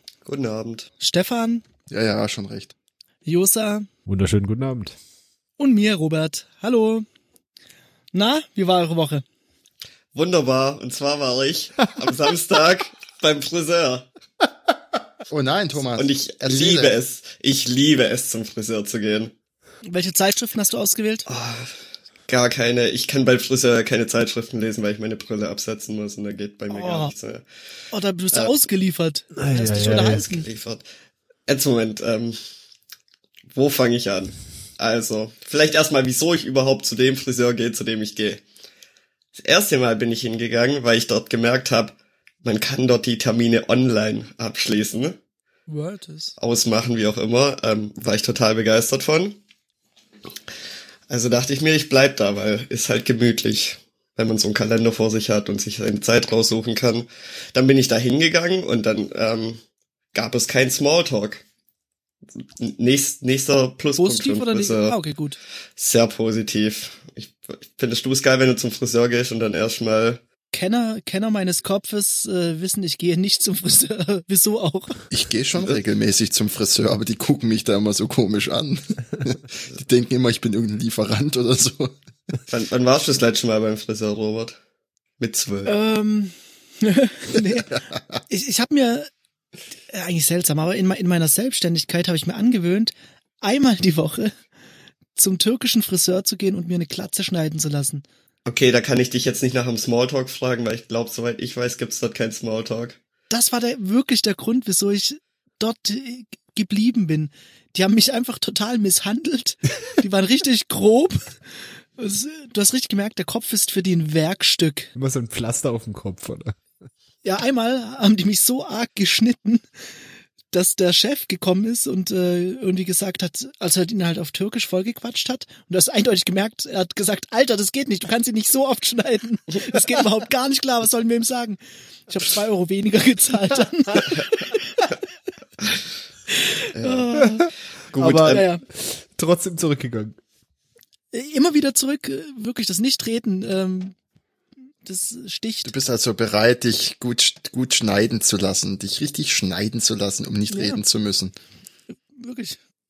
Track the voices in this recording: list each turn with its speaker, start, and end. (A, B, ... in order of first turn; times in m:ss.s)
0:00.2-0:00.9 A
0:01.0-0:01.6 B
0:01.9-0:02.7 C
0:03.2-0:03.9 B
0:04.1-0:05.0 D
0:05.6-0:07.1 B
0:08.1-0:09.2 B
0:10.1-0:14.1 A
0:15.3-0:17.0 C
0:16.0-0:19.3 A
0:19.9-0:21.3 B
0:21.3-0:21.7 A
0:22.3-0:27.4 A
0:26.7-0:27.1 B
0:27.9-0:30.5 B
0:29.4-0:30.2 D
0:30.1-0:30.8 A
0:31.5-0:32.4 A
0:33.5-0:38.4 A
0:39.4-0:45.2 A
0:45.7-0:46.4 B
0:46.4-0:49.4 A
0:51.1-0:59.6 A
1:00.1-1:01.4 A
1:02.6-1:05.0 A
1:04.0-1:05.4 B
1:05.8-1:10.2 A
1:10.5-1:15.0 B
1:15.1-1:22.0 C
1:22.5-1:24.6 A
1:25.2-1:25.8 A
1:25.7-1:27.8 B
1:27.8-1:28.0 C
1:28.3-1:29.1 B
1:29.9-1:34.3 B
1:35.2-1:38.0 B
1:38.5-1:43.0 A
1:43.3-1:51.4 B
1:52.0-1:54.9 B
1:55.0-1:56.6 D
1:57.2-1:59.6 B
2:00.5-2:14.9 B
2:16.3-2:17.5 B
2:16.8-2:17.1 A
2:17.9-2:18.4 A
2:18.0-2:20.2 D
2:18.2-2:18.6 B
2:21.1-2:24.0 B
2:24.8-2:25.7 B
2:25.6-2:31.3 C
2:30.5-2:30.8 B
2:32.2-2:32.6 B